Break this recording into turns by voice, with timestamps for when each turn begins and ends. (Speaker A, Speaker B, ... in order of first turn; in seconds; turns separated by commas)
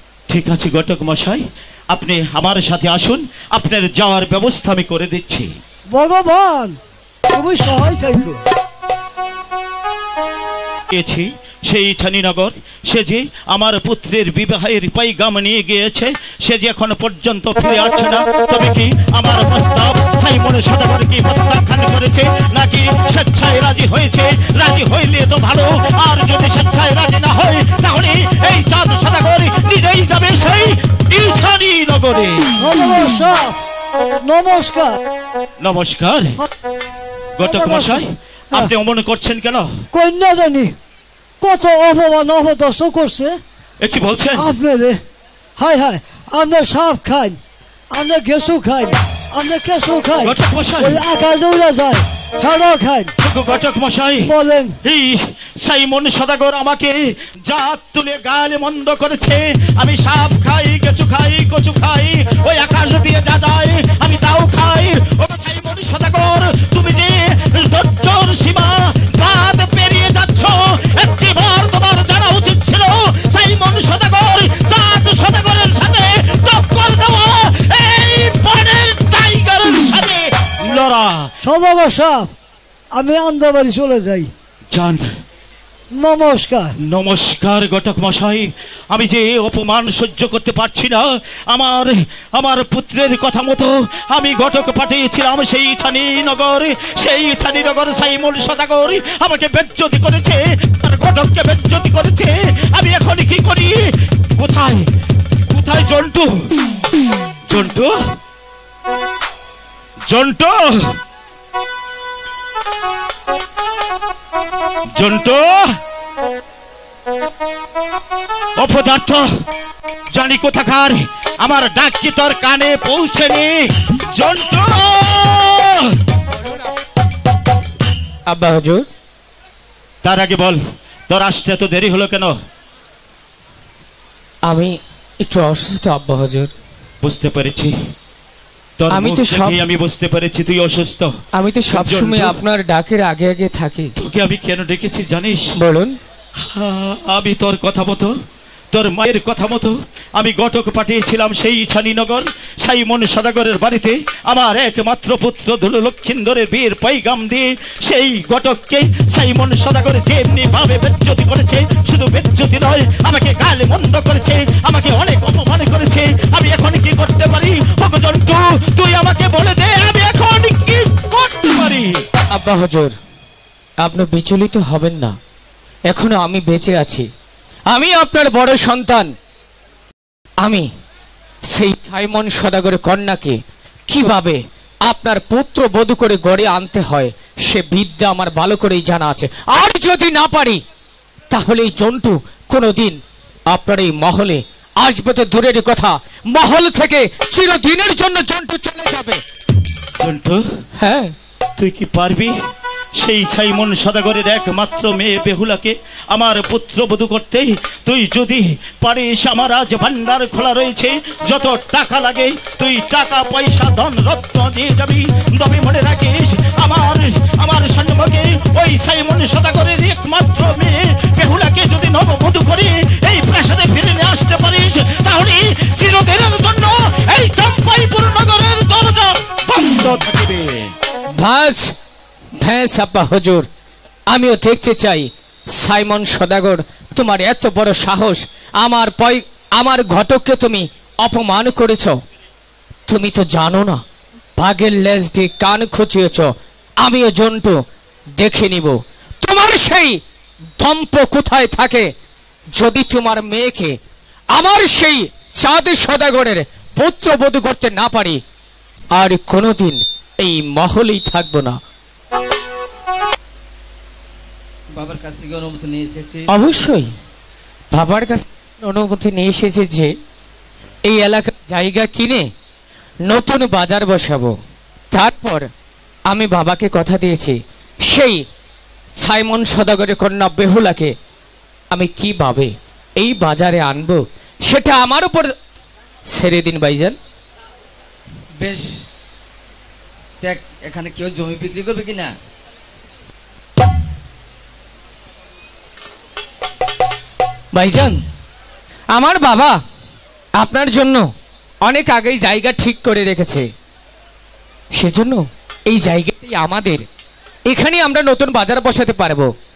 Speaker A: 0.3-5.5, Speaker B: 5.9-6.8, Speaker B: 7.3-8.4, Speaker A: 10.9-32.5, Speaker B: 32.6-33.5, Speaker B: 34.2-35.0, Speaker A: 35.6-36.4, Speaker A: 37.4-39.8, Speaker B: 37.4-38.0, Speaker B: 39.9-40.7, Speaker B: 41.4-43.4, Speaker A: 43.8-44.5, Speaker B: 44.3-45.0, Speaker B: 45.6-47.4, Speaker B: 47.9-53.1, Speaker A: 50.2-51.0, Speaker A: 53.2-54.3, Speaker B: 54.3-54.8, Speaker A: 54.8-81.3, Speaker B: 81.4-82.3, Speaker B: 82.9-84.3, Speaker A: 84.7-85.0, Speaker B: 85.9-86.7, Speaker A: 86.8-104.8, Speaker A: 105.5-106.3, Speaker A: 107.5-107.9, Speaker A: 110.1-110.9, Speaker A: 115.0-115.5, Speaker A: 118.6-119.2, Speaker A: 120.1-126.0, Speaker C: 128.3-128.8, Speaker A: 130.0-132.3, Speaker C: 134.5-136.5, Speaker A: 137.0-137.7, Speaker A: 138.8-141.1, Speaker C: 138.9-139.7, Speaker C: 141.3-143.9, Speaker A: 141.7-142.4, Speaker A: 144.0-145.4, Speaker C: 145.6-145.9, Speaker A: 146.4-148.1, Speaker A: 148.7-172.0, Speaker C: 172.3-172.9, Speaker C: 173.8-175.1, Speaker C: 175.9-177.1, Speaker C: 177.7-179.1, Speaker C: 180.4-180.7, Speaker C: 181.5-183.4, Speaker C: 183.9-190.6, Speaker C: 191.3-199.2, Speaker A: 200.0-200.4, Speaker C: 200.8-201.1, Speaker A: 201.6-202.3, Speaker A: 203.0-230.7, Speaker C: 231.2-231.7, Speaker C: 232.4-233.5, Speaker C: 234.1-241.9, Speaker C: 242.9-243.8, Speaker C: 244.4-246.3, Speaker C: 246.8-247.5, Speaker C: 248.2-250.0, Speaker C: 250.6-251.9, Speaker C: 252.6-253.7, Speaker C: 254.3-258.2, Speaker C: 258.9-261.6, Speaker D: 264.7-266.3, Speaker C: 266.3-266.9, Speaker C: 267.7-269.9, Speaker C: 270.9-272.2, Speaker C: 273.1-274.3, Speaker C: 274.9-275.5, Speaker C: 276.1-277.4, Speaker C: 277.9-278.2, Speaker C: 279.0-280.9, Speaker C: 281.7-285.3, Speaker C: 286.1-287.0, Speaker D: 288.4-288.6, Speaker D: 290.2-292.1, Speaker C: 297.5-298.0, Speaker C: 298.9-299.6, Speaker C: 300.4-301.1, Speaker C: 301.6-303.4, Speaker C: 304.8-306.8, Speaker C: 307.5-309.3